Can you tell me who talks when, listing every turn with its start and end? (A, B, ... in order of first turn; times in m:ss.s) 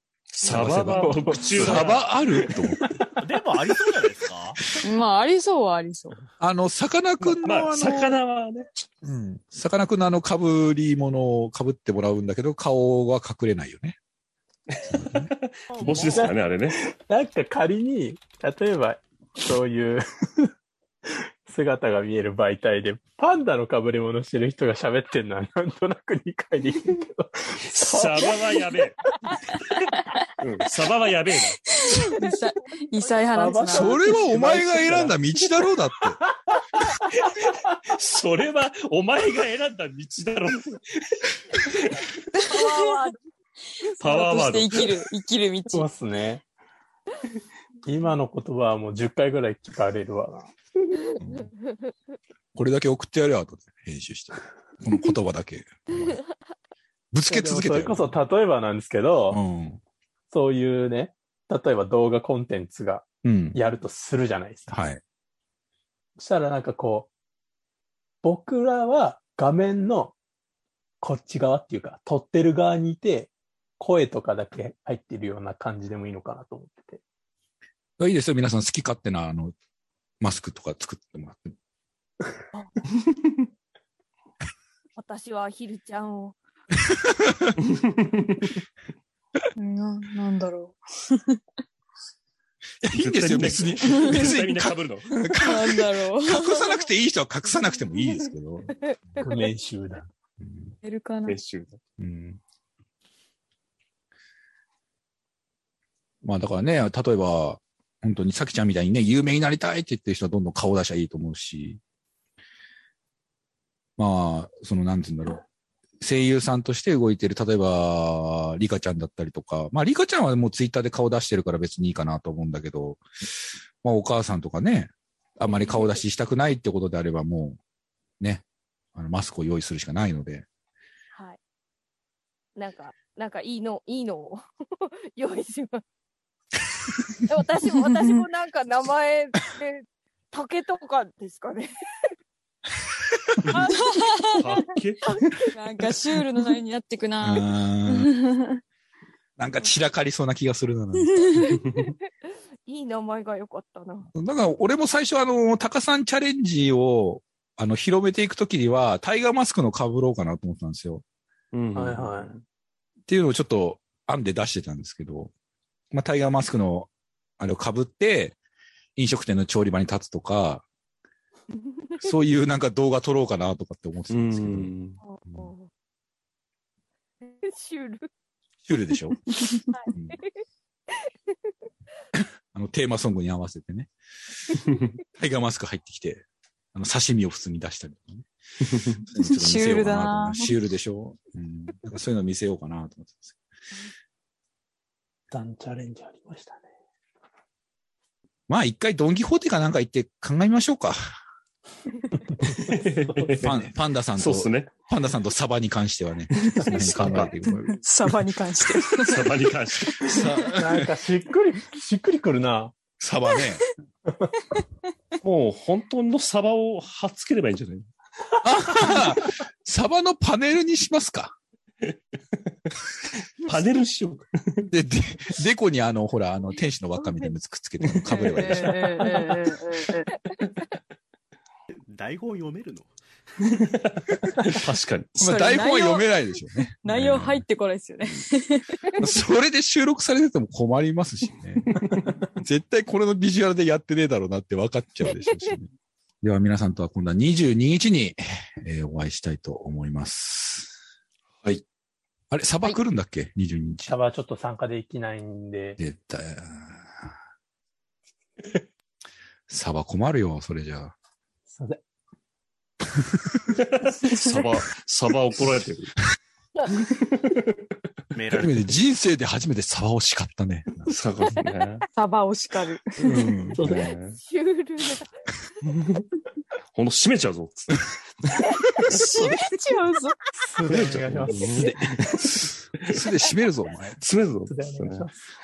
0:00.4-0:02.7 A
0:00.4-0:02.9 B
0:00.8-0:01.8 C
0:02.5-0:03.2 C
0:03.2-0:04.6 D
0:04.8-0:06.2 E
0:06.4-0:08.2 B
0:07.2-0:08.7 A
0:09.0-0:14.0 B
0:14.7-0:16.8 A
0:14.9-0:15.3 B
0:15.8-0:16.2 D
0:16.2-0:20.5 C
0:21.4-0:28.6 C
0:27.7-0:29.0 A
0:30.4-0:31.6 A
0:31.7-0:34.2 E
0:33.3-0:35.2 C
0:33.7-0:36.2 B
0:37.4-0:42.1 A
0:42.3-0:43.0 E
0:42.5-0:43.2 F
0:44.0-0:45.0 A
0:44.0-0:45.9 E
0:45.7-0:46.4 C
0:47.8-0:50.5 C
0:51.2-0:51.4 F
0:51.2-0:51.5 B
0:52.5-0:56.2 B
0:57.1-0:58.1 B
0:57.3-0:59.4 C
0:59.3-0:59.8 B
1:00.3-1:04.7 C
1:03.2-1:03.6 B
1:04.7-1:05.0 B
1:06.2-1:07.1 C
1:08.2-1:10.2 C
1:11.0-1:17.0 C
1:18.0-1:19.5 B
1:20.2-1:21.5 B
1:25.0-1:26.3 F
1:26.9-1:27.5 B
1:27.6-1:28.5 A
1:29.6-1:31.4 E
1:32.8-1:39.2 B
1:32.9-1:35.2 A
1:34.0-1:34.3 E
1:35.2-1:36.6 E
1:38.7-1:39.5 F
1:39.2-1:40.1 C
1:40.4-1:40.7 B
1:40.8-1:41.4 E
1:41.2-1:41.8 A
1:42.0-1:42.4 B
1:46.2-1:51.8 B
1:54.0-1:55.4 B
1:56.0-2:03.0 B
2:03.8-2:07.6 B
2:05.4-2:06.0 F
2:08.9-2:10.4 B
2:12.6-2:15.8 F
2:17.2-2:21.7 F
2:17.9-2:18.2 E
2:23.6-2:24.4 E
2:24.4-2:25.1 A
2:25.0-2:25.4 F
2:25.5-2:28.6 E
2:27.2-2:28.1 B
2:29.4-2:31.6 B
2:31.0-2:31.6 E
2:31.6-2:31.9 A
2:32.6-2:34.1 F
2:34.1-2:41.0 B
2:41.5-2:42.3 A
2:41.7-2:42.4 C
2:43.1-2:45.3 B
2:45.9-2:48.4 B
2:49.0-2:50.6 B
2:52.0-2:54.7 B
2:54.1-2:55.0 A
2:55.0-2:55.7 F
2:55.3-2:55.5 B
2:57.2-2:58.1 F
2:58.6-2:59.4 B
2:59.3-2:59.6 E
2:59.9-3:00.2 B
3:02.1-3:03.9 B
3:05.2-3:08.3 B
3:09.1-3:13.4 B
3:09.2-3:10.5 E
3:15.3-3:16.6 C
3:18.5-3:21.0 B
3:22.4-3:24.7 A
3:22.5-3:23.4 C
3:23.4-3:27.8 B
3:26.4-3:27.3 A
3:26.5-3:27.3 C
3:26.8-3:30.5 E
3:28.8-3:30.3 A
3:30.0-3:30.9 B
3:30.4-3:32.7 C
3:33.0-3:33.7 B
3:35.2-3:37.9 A
3:38.4-3:41.3 B
3:41.9-3:42.4 A
3:43.4-3:44.7 A
3:44.7-3:48.8 B
3:48.1-3:50.1 E
3:48.1-3:48.6 A
3:51.9-3:52.9 D
3:53.9-3:55.2 A
3:55.2-3:56.1 E
3:55.2-3:57.4 B
3:56.8-3:59.0 E
3:59.0-4:05.7 B
4:01.6-4:02.1 A
4:05.2-4:05.5 F
4:06.2-4:10.7 B
4:12.3-4:13.9 B
4:13.8-4:15.8 C
4:15.8-4:17.1 B
4:19.5-4:20.9 B
4:21.5-4:21.8 C
4:23.6-4:25.9 A
4:26.8-4:27.6 A
4:28.1-4:28.7 D
4:28.3-4:30.9 B
4:30.8-4:31.9 A
4:31.9-4:33.4 E
4:33.0-4:33.6 B
4:33.6-4:33.9 C
4:33.6-4:34.2 A
4:34.2-4:35.1 F
4:35.6-4:36.0 A
4:36.7-4:38.4 A
4:38.9-4:40.3 E
4:40.5-4:42.0 C
4:40.7-4:43.0 A
4:40.7-4:41.4 B
4:42.8-4:44.0 B
4:44.0-4:45.1 A
4:44.5-4:45.2 C